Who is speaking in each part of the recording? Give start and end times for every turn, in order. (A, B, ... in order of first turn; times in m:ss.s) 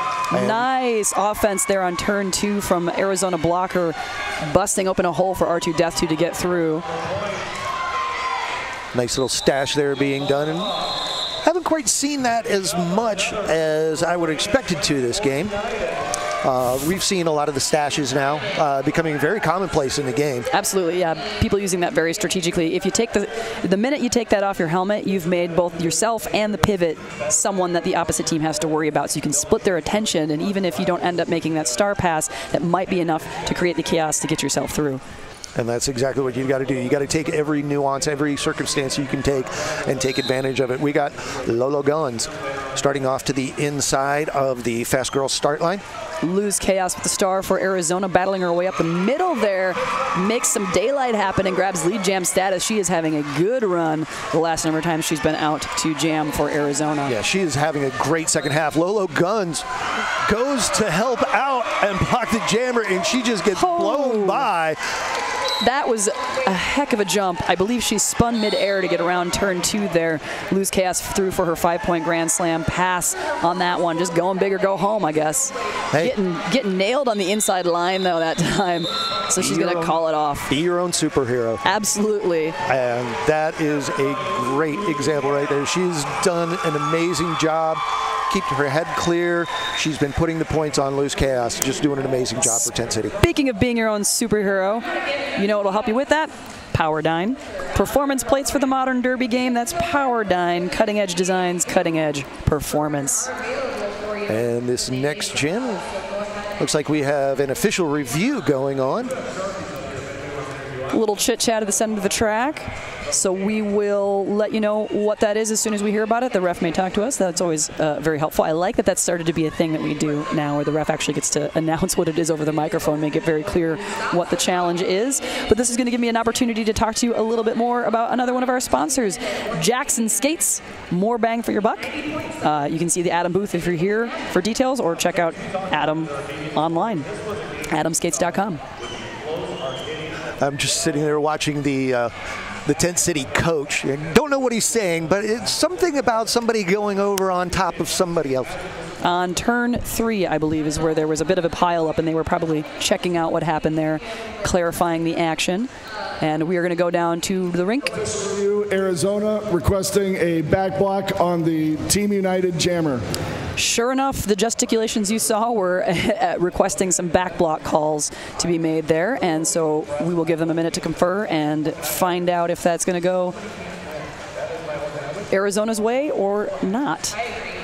0:00.3-0:00.7 A
0:00.3-0:06.8 B
0:08.9-0:10.7 A
0:11.4-0:15.5 A
0:16.4-0:20.5 A
0:20.5-0:35.0 B
0:35.6-0:45.8 A
0:46.2-0:57.1 B
0:57.0-0:59.6 A
1:00.2-1:04.8 A
1:03.5-1:04.5 B
1:05.6-1:20.5 B
1:19.4-1:21.6 A
1:21.6-1:22.6 B
1:22.6-1:33.2 A
1:33.2-1:43.3 B
1:44.2-1:45.8 A
1:46.6-1:49.1 A
1:50.9-2:17.1 B
2:17.7-2:18.6 B
2:20.4-2:22.1 A
2:22.6-2:28.6 A
2:29.0-2:35.7 B
2:36.2-2:37.9 B
2:38.1-2:43.0 C
2:43.6-2:53.4 B
2:55.3-2:57.1 B